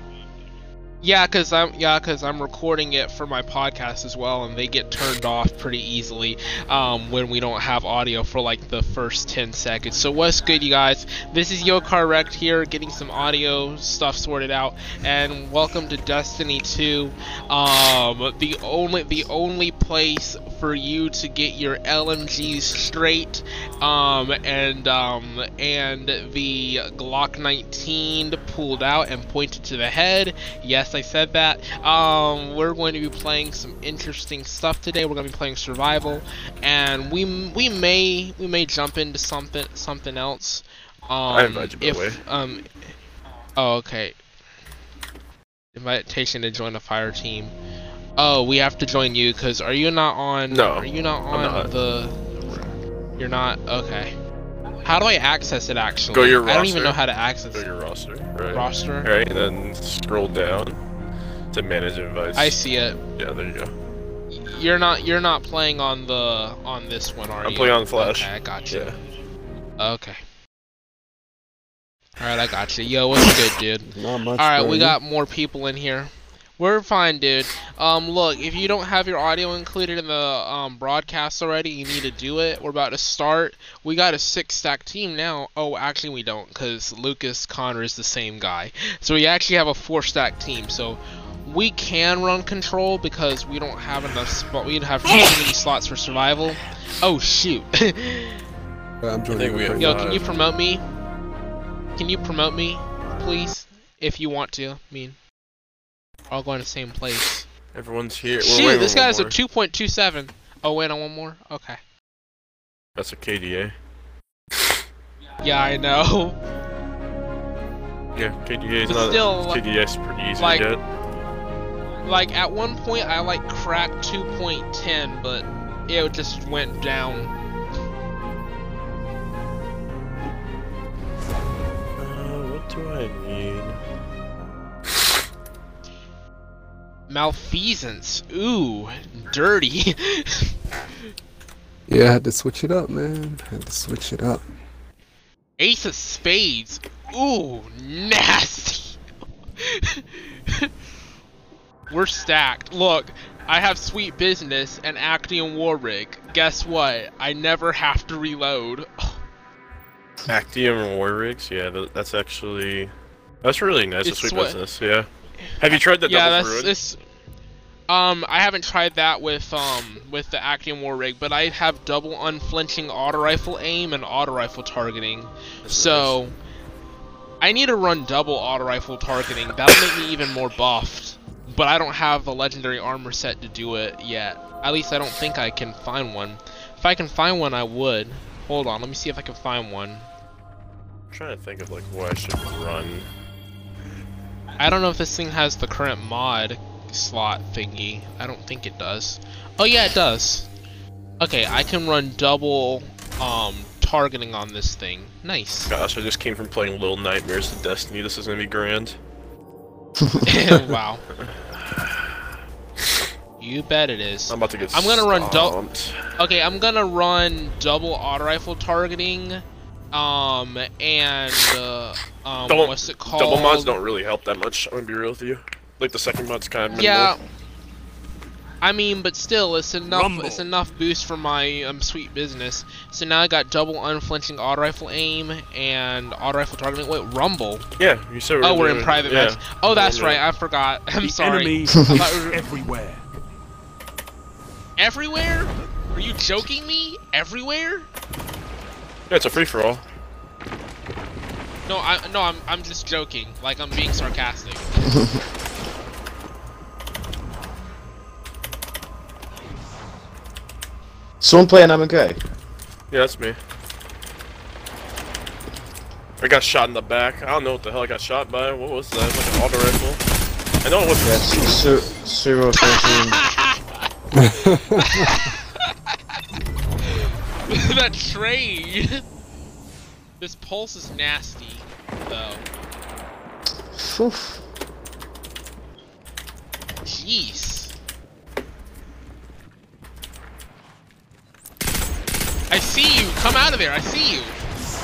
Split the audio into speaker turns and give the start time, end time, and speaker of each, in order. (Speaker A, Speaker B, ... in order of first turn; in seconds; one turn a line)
Speaker A: 1.0-42.8
Speaker B: 41.3-42.2
Speaker A: 43.6-44.2
Speaker A: 45.7-47.5
Speaker A: 48.2-54.1
Speaker B: 50.5-51.7
Speaker A: 54.8-57.6
Speaker B: 56.1-57.0
Speaker B: 57.5-60.8
Speaker A: 58.5-59.1
Speaker B: 61.5-62.6
Speaker A: 62.3-63.0
Speaker B: 63.2-63.7
Speaker A: 64.3-68.9
Speaker B: 67.4-69.0
Speaker A: 69.8-70.2
Speaker A: 72.2-98.4
Speaker C: 73.8-75.0
Speaker C: 99.0-100.0
Speaker B: 99.3-100.2
Speaker A: 99.8-100.8
Speaker A: 102.0-105.2
Speaker A: 106.3-107.5
Speaker B: 107.7-109.4
Speaker A: 108.4-111.8
Speaker B: 113.0-113.8
Speaker A: 115.4-116.4
Speaker B: 118.1-120.8
Speaker A: 118.9-119.6
Speaker A: 120.4-120.6
Speaker A: 122.0-127.3
Speaker B: 132.0-133.8
Speaker A: 137.1-140.5
Speaker C: 141.9-144.4
Speaker A: 145.6-149.0
Speaker A: 149.6-150.7
Speaker A: 151.9-159.2
Speaker B: 160.3-162.9
Speaker B: 163.4-165.1
Speaker A: 164.0-164.6
Speaker B: 165.6-166.7
Speaker A: 166.0-167.0
Speaker A: 167.9-176.3
Speaker B: 175.6-176.2
Speaker A: 177.4-190.1
Speaker B: 191.1-193.1
Speaker A: 194.6-200.5
Speaker A: 201.2-205.7
Speaker B: 205.7-209.0
Speaker A: 210.2-211.0
Speaker B: 211.2-212.1
Speaker A: 213.4-215.6
Speaker B: 214.3-216.0
Speaker A: 216.2-223.8
Speaker B: 222.4-227.1
Speaker A: 226.7-227.2
Speaker A: 228.6-237.7
Speaker D: 229.9-230.5
Speaker B: 237.8-240.2
Speaker A: 238.4-242.4
Speaker D: 241.0-243.1
Speaker E: 241.8-242.0
Speaker A: 244.8-247.9
Speaker B: 249.1-249.8
Speaker A: 251.7-255.0
Speaker E: 254.9-255.2
Speaker E: 261.2-262.2
Speaker B: 262.9-263.4
Speaker B: 266.2-270.0
Speaker B: 270.6-271.9
Speaker E: 271.0-273.2
Speaker A: 272.6-273.6
Speaker C: 274.1-275.2
Speaker A: 274.8-276.0
Speaker A: 276.8-279.0
Speaker A: 280.2-282.4
Speaker E: 283.7-284.4
Speaker A: 286.8-287.7
Speaker A: 292.5-294.4